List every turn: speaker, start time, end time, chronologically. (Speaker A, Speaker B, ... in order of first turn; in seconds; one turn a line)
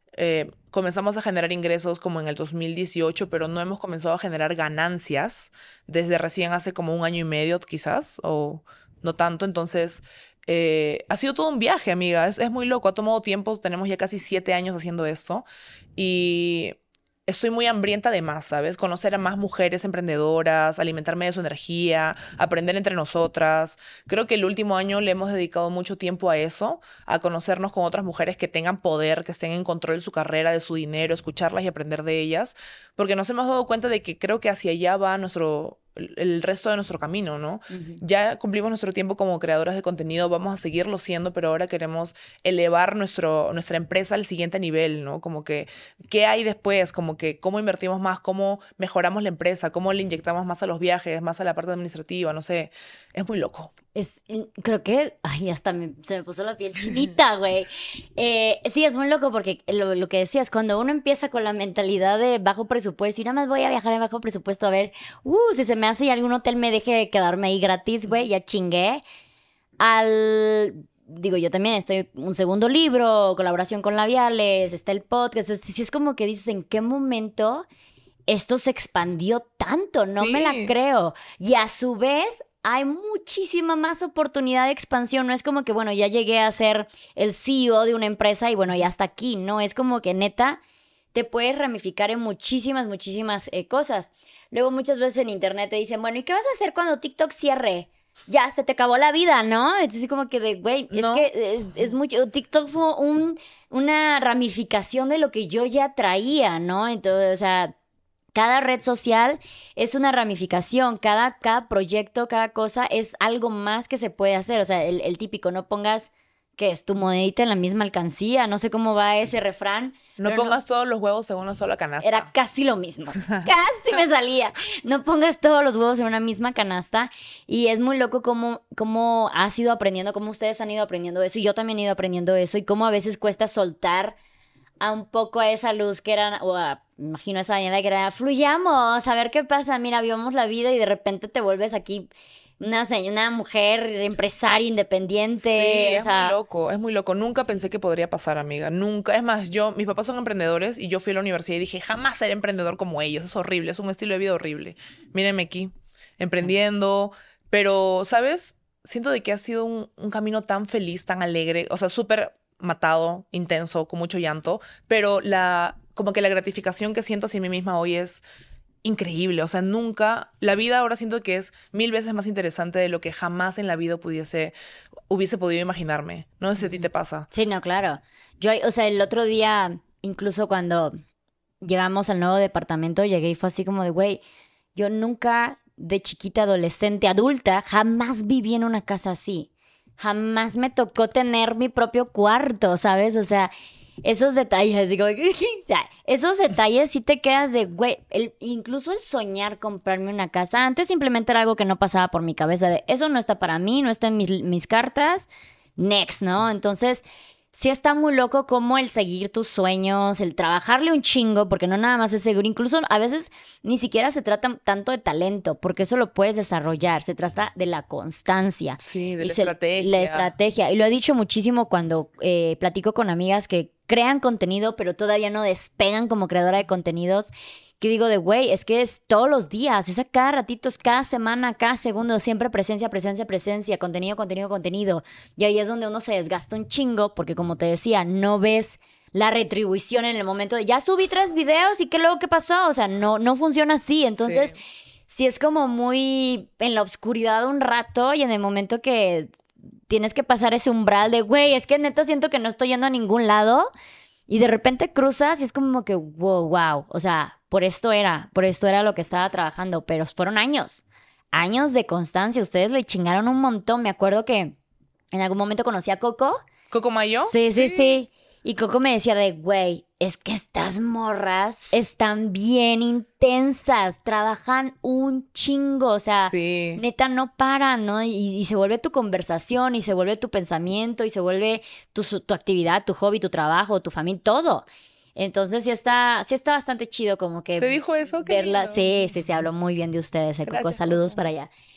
Speaker A: 0.1-53.7
Speaker B: 37.7-38.0
Speaker B: 53.9-69.0
Speaker B: 69.8-77.6
Speaker B: 78.3-90.6
Speaker A: 80.1-80.7
Speaker B: 91.1-107.7
Speaker A: 100.9-101.2
Speaker B: 108.3-120.5
Speaker A: 120.2-122.3
Speaker B: 122.0-134.2
Speaker B: 134.8-142.1
Speaker B: 142.6-146.3
Speaker A: 145.4-168.2
Speaker A: 168.8-174.5
Speaker A: 175.1-177.3
Speaker B: 176.6-181.0
Speaker B: 181.6-184.2
Speaker B: 184.7-189.5
Speaker B: 190.0-193.5
Speaker B: 194.0-244.5
Speaker A: 218.8-220.3
Speaker A: 244.2-244.5
Speaker B: 245.1-249.3
Speaker B: 249.9-253.7
Speaker B: 254.3-264.6
Speaker B: 265.1-266.4
Speaker A: 266.7-268.0
Speaker B: 267.3-291.5
Speaker A: 276.3-276.8
Speaker A: 287.6-288.9
Speaker A: 290.4-291.2